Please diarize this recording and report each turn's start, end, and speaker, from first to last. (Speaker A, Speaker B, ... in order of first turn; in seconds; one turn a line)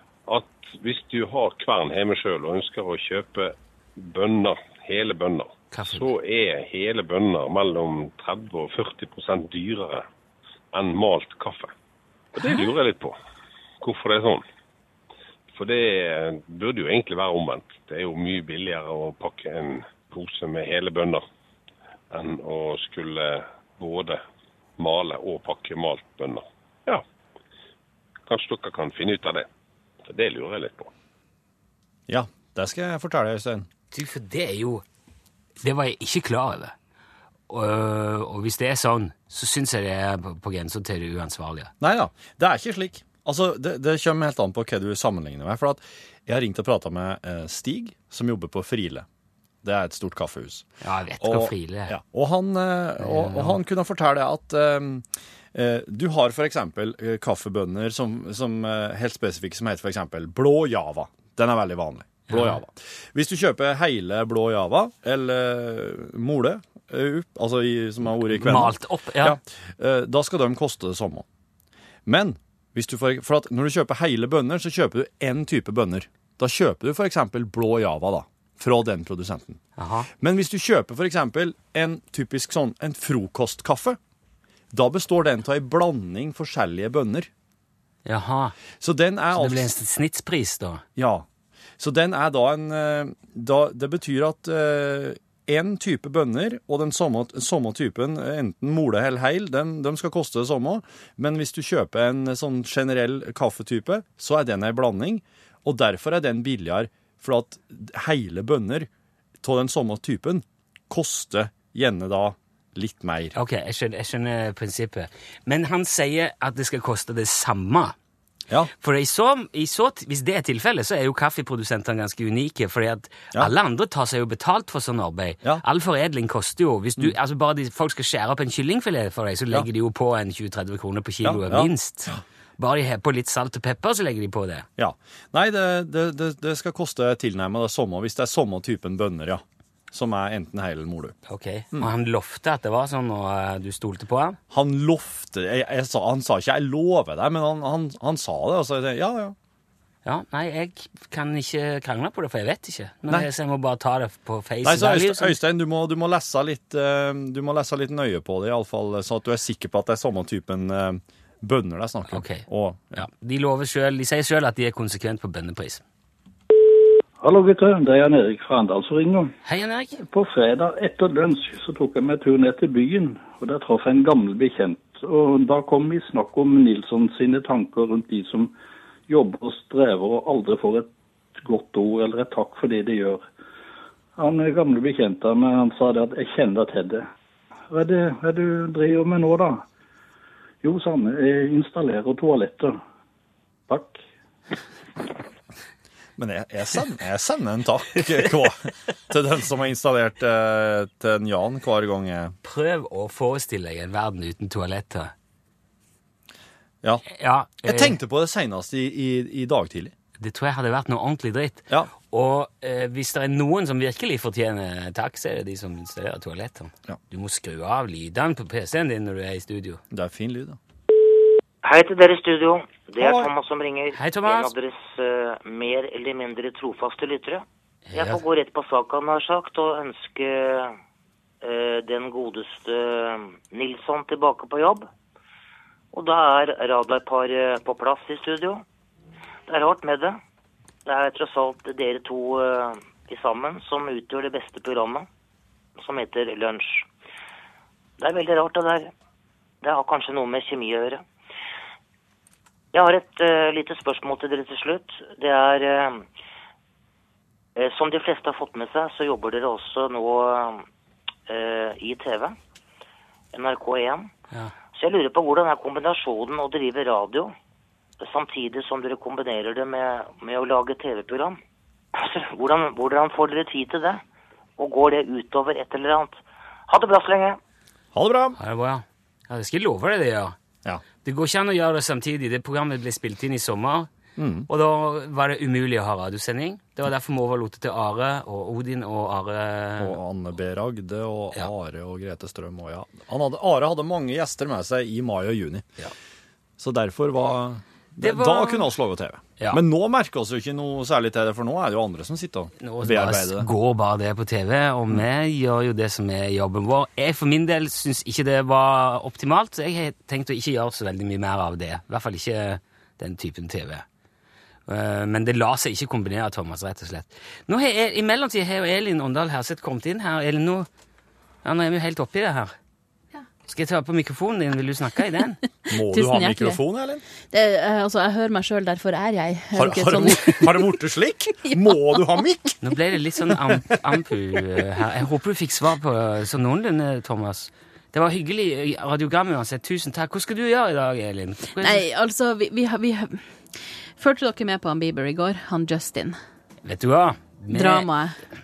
Speaker A: 0.3-10.1
Speaker B: 5.7-6.1
Speaker A: 10.7-11.7
Speaker A: 12.4-13.2
Speaker A: 13.8-14.4
Speaker A: 15.5-21.2
Speaker A: 22.1-24.2
Speaker A: 24.8-27.1
Speaker A: 28.3-29.5
Speaker A: 30.1-30.9
Speaker C: 32.1-33.7
Speaker B: 33.9-34.8
Speaker B: 35.6-36.8
Speaker B: 37.5-41.7
Speaker C: 41.8-49.1
Speaker C: 49.6-50.7
Speaker B: 50.8-52.0
Speaker C: 51.2-71.2
Speaker B: 53.0-53.6
Speaker B: 62.3-62.6
Speaker B: 68.3-69.4
Speaker C: 72.1-79.6
Speaker B: 79.8-80.1
Speaker C: 80.2-84.0
Speaker C: 84.7-87.3
Speaker B: 88.0-88.6
Speaker C: 88.8-89.7
Speaker B: 89.3-90.8
Speaker C: 91.0-91.3
Speaker C: 91.8-108.9
Speaker C: 109.4-113.3
Speaker B: 113.3-118.0
Speaker B: 118.8-134.7
Speaker C: 131.2-132.2
Speaker C: 134.8-141.2
Speaker B: 141.3-144.4
Speaker C: 144.5-149.4
Speaker B: 150.1-155.4
Speaker C: 154.6-163.1
Speaker B: 162.1-165.8
Speaker D: 167.2-169.3
Speaker B: 169.4-170.0
Speaker D: 170.1-178.5
Speaker D: 179.1-183.3
Speaker D: 184.2-187.1
Speaker D: 187.7-189.6
Speaker D: 190.6-192.8
Speaker D: 193.7-194.0
Speaker C: 196.2-202.3
Speaker B: 202.4-205.1
Speaker B: 207.1-208.0
Speaker C: 207.6-209.9
Speaker B: 210.2-219.8
Speaker C: 219.9-220.6
Speaker E: 221.6-230.8
Speaker C: 223.0-223.3
Speaker B: 223.9-224.5
Speaker B: 227.9-228.2
Speaker E: 231.4-234.9
Speaker E: 235.9-238.6
Speaker E: 239.5-240.2
Speaker E: 240.9-245.1
Speaker E: 245.8-246.9
Speaker E: 248.0-248.9
Speaker E: 249.6-251.0
Speaker E: 252.7-256.1
Speaker E: 257.6-260.6
Speaker E: 261.3-262.4
Speaker E: 263.3-264.1
Speaker E: 264.8-267.3
Speaker E: 268.0-271.4
Speaker E: 271.9-274.0
Speaker E: 274.6-277.4
Speaker C: 277.9-278.4
Speaker B: 278.4-280.4
Speaker B: 281.0-283.9
Speaker C: 284.2-284.5
Speaker B: 284.5-290.0
Speaker C: 289.8-295.8
Speaker C: 296.6-303.5
Speaker B: 298.0-298.7
Speaker B: 302.6-313.9
Speaker B: 314.7-320.7
Speaker B: 321.4-322.5
Speaker B: 323.5-325.4
Speaker C: 325.7-327.0
Speaker F: 325.7-326.6
Speaker F: 327.3-330.7
Speaker C: 329.5-332.6
Speaker F: 331.5-332.0
Speaker B: 332.6-341.8
Speaker F: 341.6-343.2
Speaker F: 344.0-346.2
Speaker B: 346.6-347.9
Speaker F: 347.5-348.2